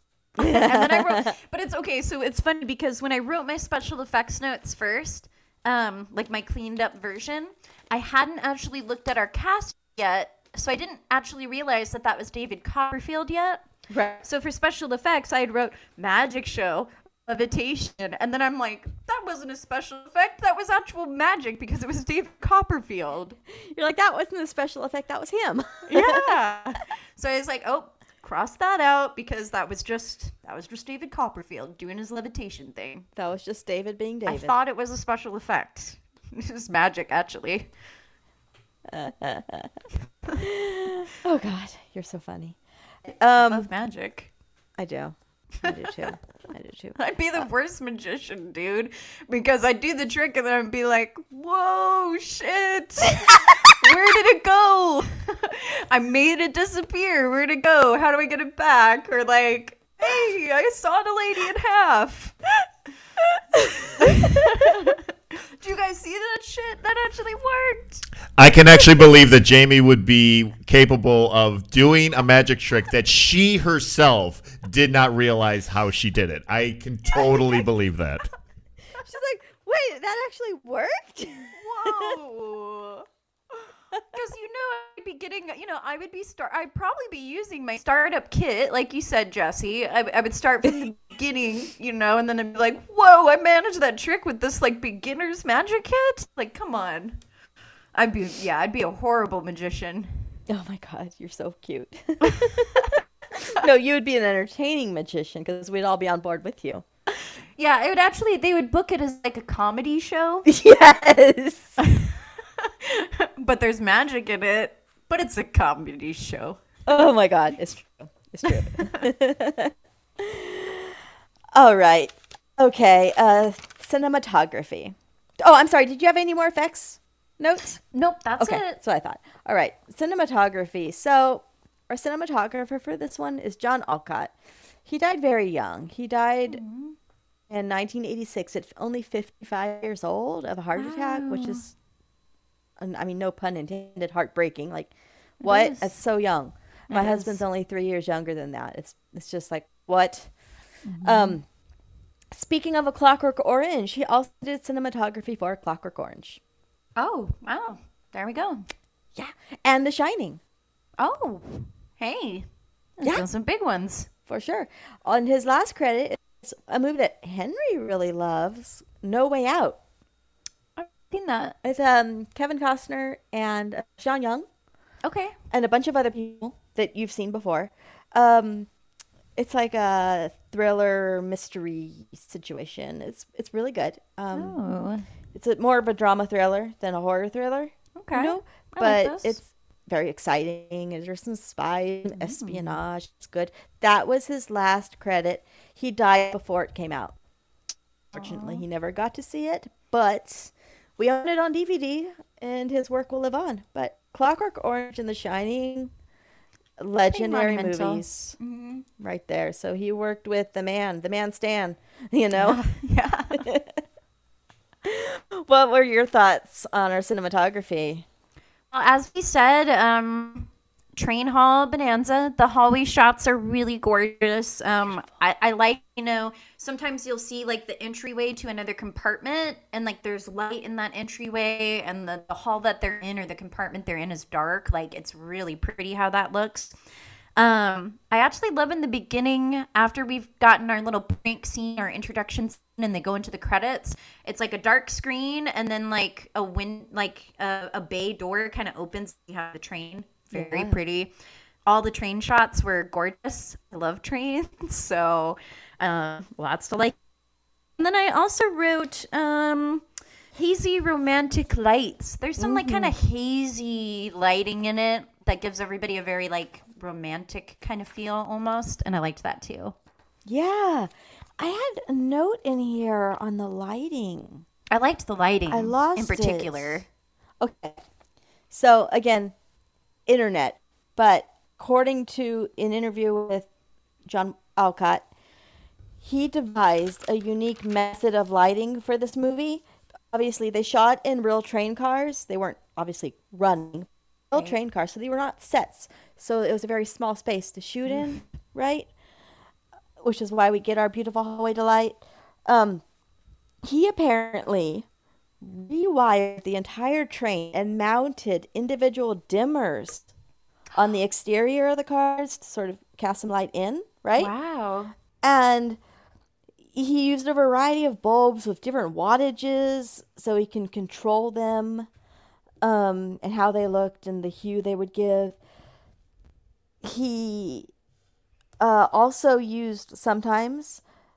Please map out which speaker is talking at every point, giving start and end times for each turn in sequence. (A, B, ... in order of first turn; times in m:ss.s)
0:00.4-0:13.6 A
0:00.4-0:01.3 B
0:13.9-0:14.2 B
0:14.2-0:23.4 A
0:23.6-0:26.4 B
0:25.9-0:33.0 A
0:33.2-0:34.6 B
0:34.3-0:37.7 A
0:38.9-0:39.7 B
0:40.4-0:42.6 B
0:43.1-0:43.7 B
0:43.4-0:44.3 A
0:44.8-0:47.0 B
0:45.6-0:46.1 A
0:47.0-1:02.3 A
1:04.0-1:08.0 A
1:08.4-1:18.2 C
1:19.0-1:22.1 B
1:21.6-1:23.0 A
1:24.1-1:37.2 A
1:38.0-1:40.2 A
1:40.5-1:46.8 B
1:47.6-1:50.4 A
1:50.4-1:51.8 B
1:51.8-1:52.1 A
1:52.6-1:56.6 A
1:56.9-2:01.0 B
1:58.6-1:59.0 A
2:01.5-2:07.8 B
2:07.9-2:08.8 A
2:08.4-2:14.3 B
2:14.8-2:16.6 B
2:16.5-2:17.0 A
2:17.5-2:21.7 B
2:20.7-2:21.6 A
2:22.8-2:30.3 B
2:25.4-2:25.9 A
2:26.9-2:27.4 A
2:30.8-2:31.4 A
2:31.0-2:31.4 B
2:32.3-2:36.4 B
2:37.0-2:38.6 A
2:39.1-2:40.4 B
2:41.0-2:42.4 A
2:43.0-2:44.1 A
2:44.3-2:49.8 B
2:50.8-2:51.6 A
2:51.6-2:54.5 B
2:55.0-2:55.3 A
2:55.5-2:58.7 B
2:59.4-3:04.6 B
3:04.3-3:05.0 A
3:05.3-3:17.2 B
3:08.0-3:09.4 A
3:12.2-3:12.8 A
3:18.1-3:25.9 B
3:18.1-3:18.6 A
3:26.8-3:28.4 B
3:27.1-3:28.8 A
3:29.0-3:32.6 B
3:32.3-3:33.4 A
3:33.4-3:33.8 B
3:34.8-3:38.0 B
3:38.7-3:56.8 A
3:57.4-4:11.1 A
4:10.3-4:10.8 B
4:11.6-4:17.0 A
4:17.8-4:19.8 A
4:20.3-4:29.7 A
4:22.4-4:22.9 B
4:30.2-4:34.4 B
4:34.7-4:36.9 A
4:35.5-4:36.8 B
4:37.4-4:37.8 B
4:38.5-4:39.3 B
4:40.1-4:43.5 B
4:44.0-4:45.0 B
4:46.0-4:58.9 B
4:57.9-4:58.2 A
5:00.0-5:02.8 B
5:03.6-5:04.9 B
5:05.4-5:10.1 B
5:10.7-5:14.3 B
5:14.2-5:14.9 A
5:15.2-5:15.8 B
5:16.7-5:21.9 B
5:22.6-5:25.4 B
5:26.8-5:27.7 B
5:28.6-5:30.8 B